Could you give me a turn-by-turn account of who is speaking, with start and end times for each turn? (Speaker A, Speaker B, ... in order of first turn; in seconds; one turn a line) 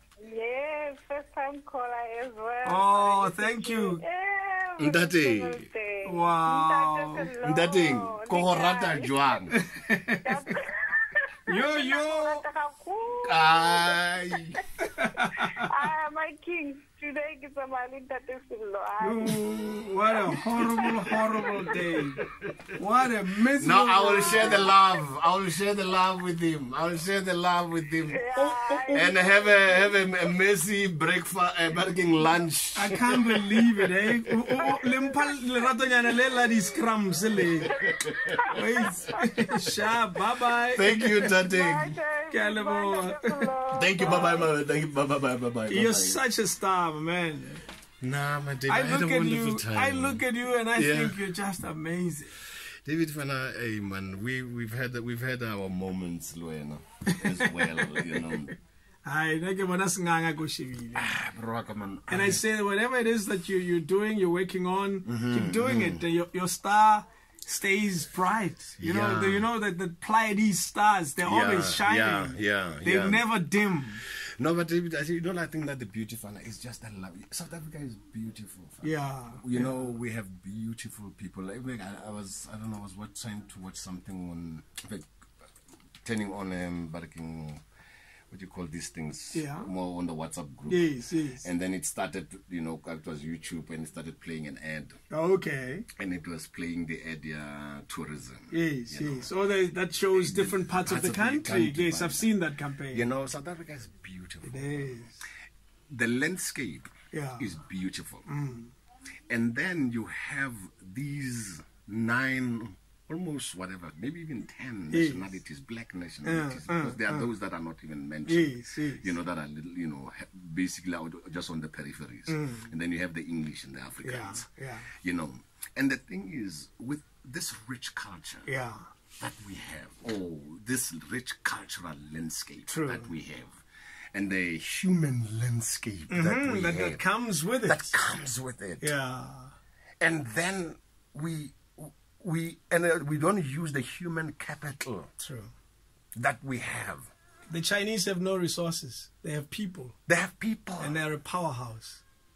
Speaker A: 0.2-9.4
Speaker B: 2.6-4.0
Speaker C: 4.8-5.7
Speaker B: 6.0-7.3
Speaker C: 7.4-9.5
Speaker B: 9.5-10.3
Speaker A: 10.2-14.0
Speaker B: 11.5-12.4
Speaker C: 13.2-14.6
Speaker B: 14.8-15.7
Speaker A: 15.4-19.5
Speaker B: 19.0-22.2
Speaker A: 20.3-21.8
Speaker C: 20.5-21.2
Speaker C: 21.8-22.7
Speaker B: 22.8-24.7
Speaker C: 23.6-28.2
Speaker A: 28.1-29.7
Speaker B: 28.3-29.1
Speaker C: 28.9-33.6
Speaker B: 32.7-37.7
Speaker A: 34.8-35.2
Speaker C: 37.7-39.0
Speaker A: 37.8-40.0
Speaker B: 38.5-41.3
Speaker C: 40.7-42.0
Speaker A: 41.2-44.5
Speaker B: 42.3-43.5
Speaker C: 43.7-46.2
Speaker B: 45.7-47.6
Speaker C: 48.0-51.2
Speaker B: 48.7-52.3
Speaker C: 52.8-58.5
Speaker B: 57.1-58.5
Speaker B: 59.0-61.1
Speaker C: 60.9-62.4
Speaker B: 62.1-74.0
Speaker C: 65.0-66.0
Speaker C: 68.8-69.5
Speaker C: 71.2-73.3
Speaker C: 74.0-85.1
Speaker B: 78.8-79.7
Speaker C: 86.0-87.6
Speaker C: 88.3-95.0
Speaker B: 89.3-89.7
Speaker B: 90.7-91.4
Speaker B: 95.1-95.8
Speaker C: 96.0-99.3
Speaker B: 98.5-103.1
Speaker C: 100.1-102.3
Speaker C: 102.9-105.1
Speaker B: 104.4-105.2
Speaker C: 105.9-108.2
Speaker B: 107.1-107.5
Speaker B: 108.3-108.7
Speaker C: 109.3-128.5
Speaker B: 114.9-115.4
Speaker B: 116.2-117.3
Speaker B: 118.3-119.1
Speaker B: 122.3-122.7
Speaker B: 124.0-124.9
Speaker B: 128.5-128.9
Speaker C: 129.2-133.6
Speaker B: 132.7-133.1
Speaker C: 134.1-137.1
Speaker B: 136.1-137.9
Speaker C: 137.6-138.9
Speaker B: 138.8-139.5
Speaker C: 140.0-145.1
Speaker B: 145.2-145.5
Speaker C: 146.1-147.1
Speaker B: 147.5-149.9
Speaker C: 150.1-151.0
Speaker B: 150.8-152.0